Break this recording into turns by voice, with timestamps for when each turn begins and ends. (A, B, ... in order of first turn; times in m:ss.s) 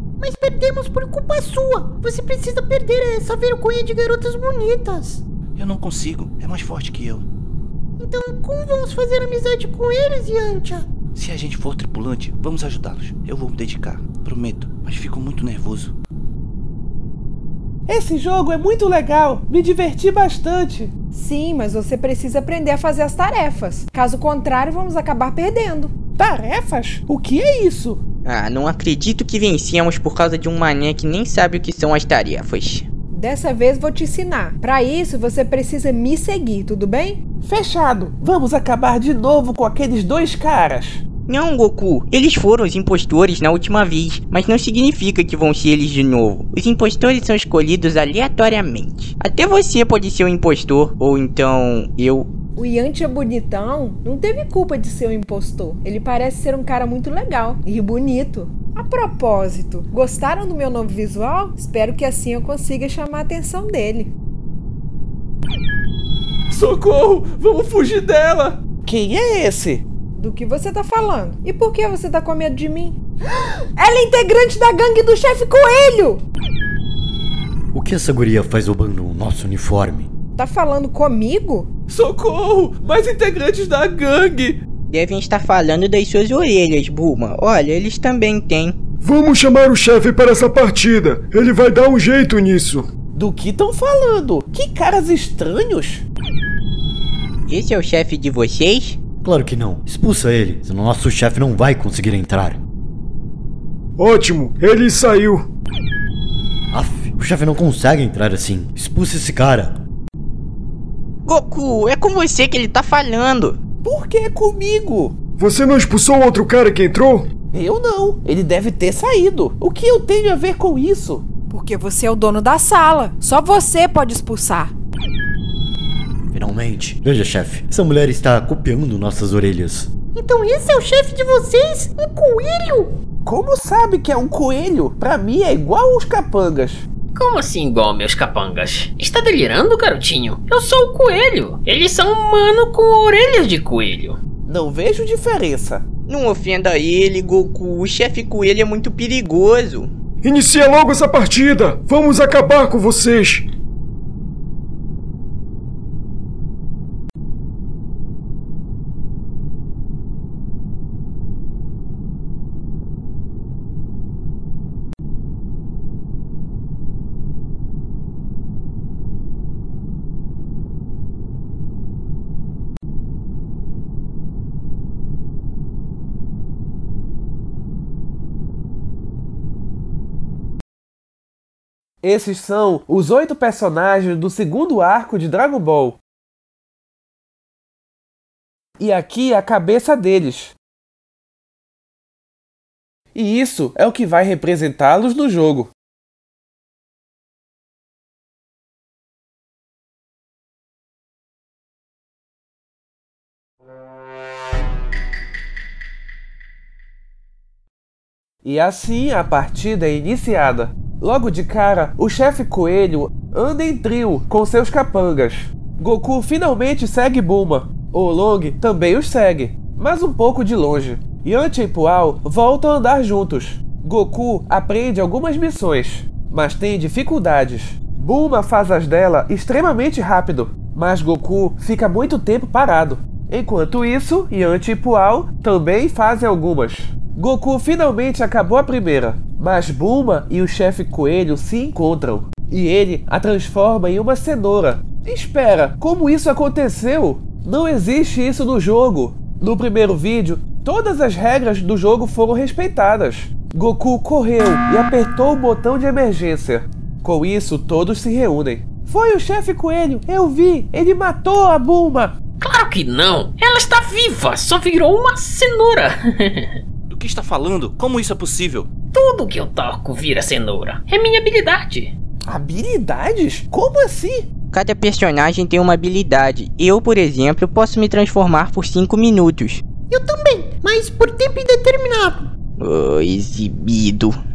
0:00.2-0:05.2 A
0:05.6-0:07.3 B
0:08.0-0:10.9 A
0:11.2-0:15.9 B
0:17.9-0:20.9 C
0:21.1-0:25.9 D
0:26.2-0:28.0 C
0:28.2-0:32.9 E
0:33.1-0:37.2 D
0:37.4-0:41.0 C
0:41.3-0:52.3 E
0:52.6-1:04.1 D
1:06.5-1:09.8 C
1:10.2-1:13.0 D
1:13.8-1:16.2 D
1:17.7-1:20.1 F
1:20.4-1:21.7 D
1:21.9-1:24.6 C
1:24.9-1:28.8 E
1:29.0-1:32.9 G
1:33.2-1:36.0 C
1:37.5-1:39.0 E
1:39.2-1:42.6 F
1:44.0-1:45.5 G
1:46.7-1:49.8 F
1:51.3-1:53.6 E
1:53.8-1:55.2 C
1:55.4-1:57.3 G
1:57.5-2:01.2 C
2:01.5-2:04.7 D
2:06.3-2:09.9 F
2:10.2-2:12.9 A
2:13.2-2:16.9 C
2:17.1-2:24.2 H
2:24.5-2:25.8 C
2:26.1-2:29.9 E
2:30.2-2:33.4 G
3:02.0-3:06.0 C
3:08.8-3:10.6 C
3:13.1-3:15.7 C
3:28.4-4:22.1 C
4:22.4-4:26.6 H
4:26.9-4:28.7 B
4:28.9-4:31.9 H
4:32.3-4:34.3 C
4:34.5-4:39.6 E
4:39.9-4:42.3 A
4:42.6-4:44.2 E